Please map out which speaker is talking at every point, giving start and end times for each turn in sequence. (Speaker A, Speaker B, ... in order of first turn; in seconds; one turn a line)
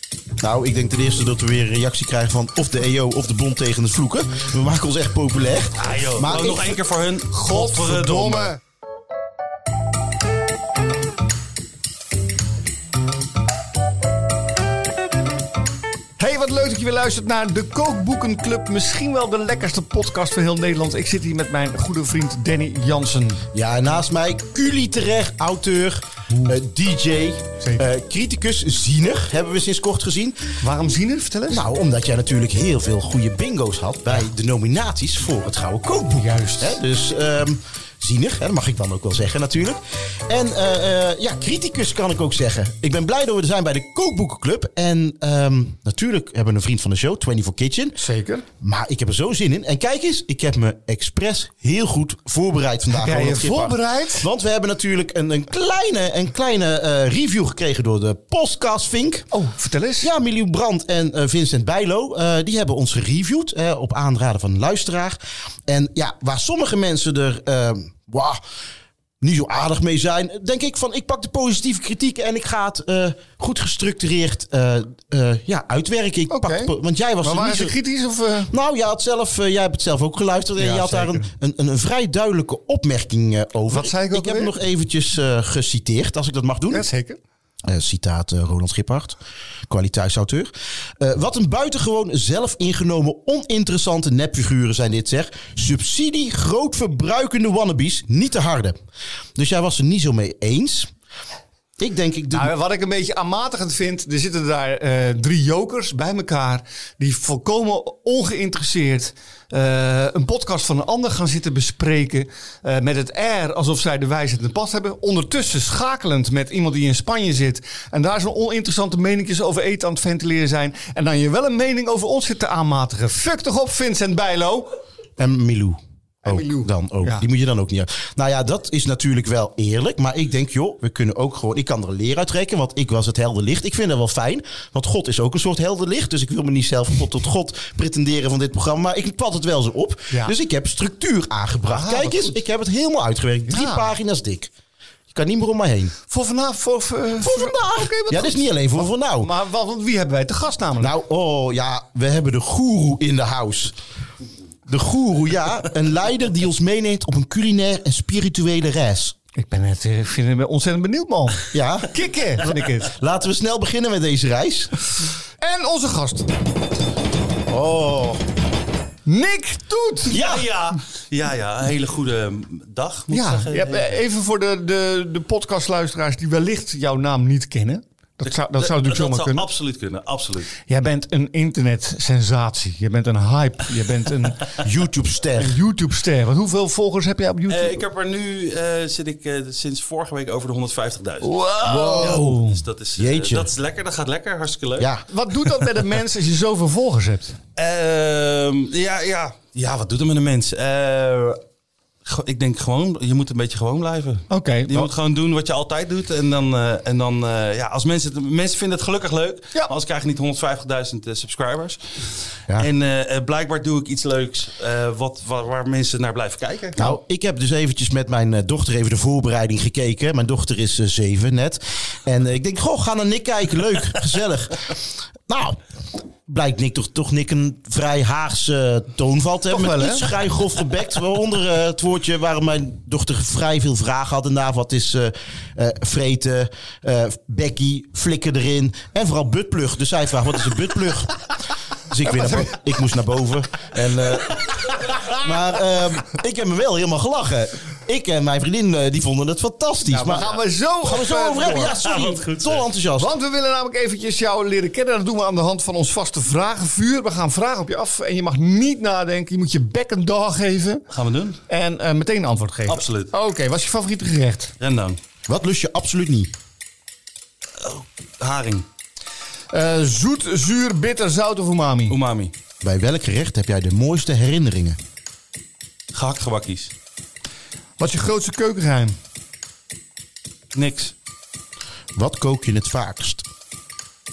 Speaker A: 0.4-6.8
Speaker B: 5.8-8.5
Speaker C: 7.3-8.6
Speaker C: 16.2-23.4
Speaker A: 23.5-30.5
Speaker C: 26.3-26.6
Speaker C: 27.6-27.9
Speaker C: 30.6-31.7
Speaker A: 31.5-48.0
Speaker C: 36.1-36.8
Speaker C: 48.0-48.5
Speaker A: 48.6-59.3
Speaker C: 52.9-54.3
Speaker C: 59.3-60.1
Speaker A: 60.0-68.4
Speaker A: 69.2-77.7
Speaker C: 76.3-78.5
Speaker A: 78.5-86.9
Speaker C: 80.6-81.3
Speaker C: 83.7-84.5
Speaker C: 86.7-87.2
Speaker A: 87.7-89.2
Speaker A: 89.7-98.8
Speaker A: 99.4-100.9
Speaker A: 101.8-102.5
Speaker C: 102.3-124.7
Speaker A: 125.2-144.5
Speaker C: 126.2-127.3
Speaker C: 141.7-142.4
Speaker C: 143.5-143.9
Speaker A: 145.1-145.9
Speaker C: 146.1-150.9
Speaker A: 147.2-149.3
Speaker A: 150.8-153.8
Speaker A: 154.7-159.2
Speaker C: 159.4-162.9
Speaker A: 161.5-161.9
Speaker A: 162.4-164.7
Speaker C: 165.4-166.3
Speaker A: 167.5-168.2
Speaker C: 169.1-170.2
Speaker A: 170.1-170.5
Speaker B: 170.1-174.0
Speaker C: 173.1-179.5
Speaker B: 178.2-180.5
Speaker C: 180.7-184.6
Speaker A: 184.6-185.6
Speaker C: 185.4-187.8
Speaker B: 187.5-191.4
Speaker C: 191.2-192.6
Speaker A: 191.7-192.4
Speaker B: 192.0-194.9
Speaker A: 193.0-193.5
Speaker A: 194.8-195.1
Speaker C: 195.1-197.4
Speaker B: 197.6-201.4
Speaker B: 202.1-211.8
Speaker C: 204.3-204.9
Speaker B: 212.5-216.9
Speaker A: 216.8-225.6
Speaker A: 226.3-241.2
Speaker C: 229.5-230.1
Speaker A: 241.9-250.3
Speaker C: 249.9-251.8
Speaker A: 250.8-253.1
Speaker B: 251.4-252.7
Speaker C: 253.0-260.9
Speaker B: 260.9-261.4
Speaker C: 261.5-264.5
Speaker B: 262.7-263.1
Speaker B: 264.6-265.0
Speaker A: 265.3-266.3
Speaker B: 267.6-268.7
Speaker C: 269.5-272.0
Speaker B: 271.9-272.3
Speaker A: 272.6-274.8
Speaker B: 275.9-276.7
Speaker C: 277.8-278.9
Speaker B: 280.5-280.9
Speaker A: 281.9-283.2